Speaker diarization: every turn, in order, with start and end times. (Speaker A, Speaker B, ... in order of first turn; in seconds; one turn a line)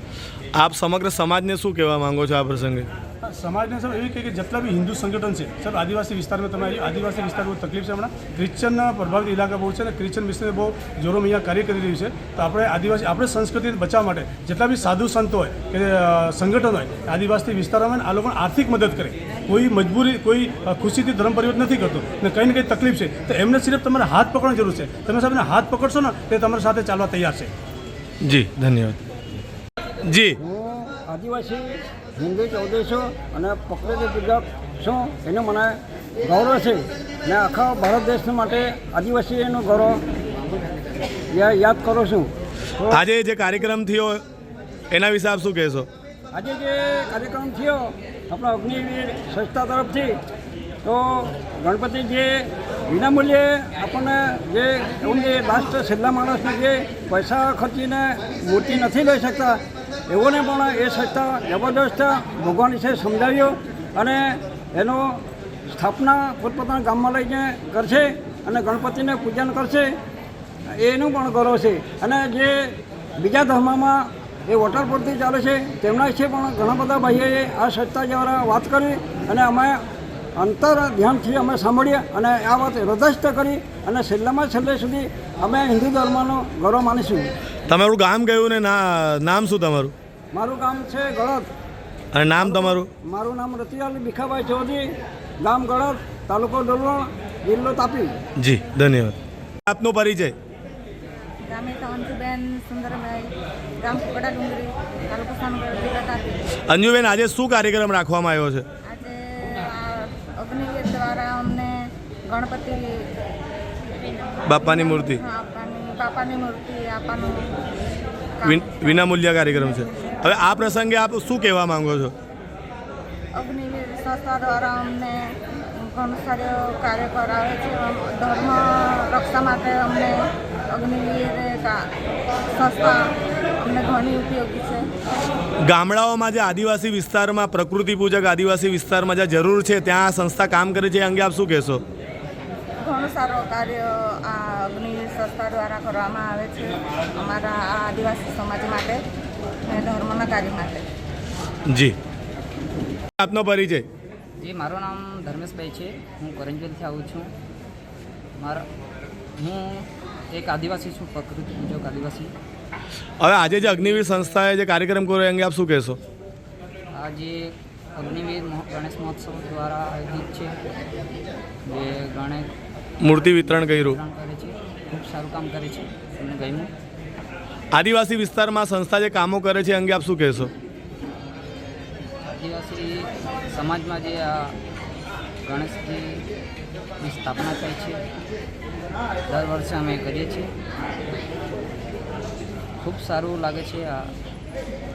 Speaker A: 0.5-2.9
Speaker B: 3.2-27.5
Speaker A: 28.2-29.4
Speaker A: 30.0-30.4
Speaker C: 30.4-40.0
Speaker C: 41.3-43.0
Speaker A: 42.9-44.2
Speaker A: 44.9-45.9
Speaker C: 46.3-50.2
Speaker C: 50.8-70.0
Speaker C: 70.7-79.8
Speaker C: 80.3-87.3
Speaker A: 87.7-89.9
Speaker C: 90.3-91.5
Speaker A: 92.1-92.9
Speaker C: 92.4-98.2
Speaker A: 98.4-100.3
Speaker D: 101.5-106.4
Speaker A: 106.7-108.6
Speaker D: 108.8-113.0
Speaker A: 114.5-115.2
Speaker D: 114.7-117.5
Speaker D: 118.4-118.7
Speaker A: 118.4-122.1
Speaker D: 123.3-131.9
Speaker D: 132.5-134.9
Speaker A: 135.7-141.8
Speaker D: 142.8-149.0
Speaker D: 149.7-150.9
Speaker A: 151.7-151.9
Speaker A: 153.2-153.8
Speaker E: 154.4-157.3
Speaker E: 158.4-158.6
Speaker E: 159.4-162.3
Speaker A: 163.2-166.0
Speaker E: 163.6-164.4
Speaker E: 166.9-170.5
Speaker E: 171.7-172.5
Speaker A: 173.0-174.0
Speaker E: 173.4-176.7
Speaker A: 177.7-180.5
Speaker E: 182.4-184.5
Speaker E: 185.4-186.2
Speaker E: 187.0-188.0
Speaker E: 189.3-190.5
Speaker E: 192.8-194.1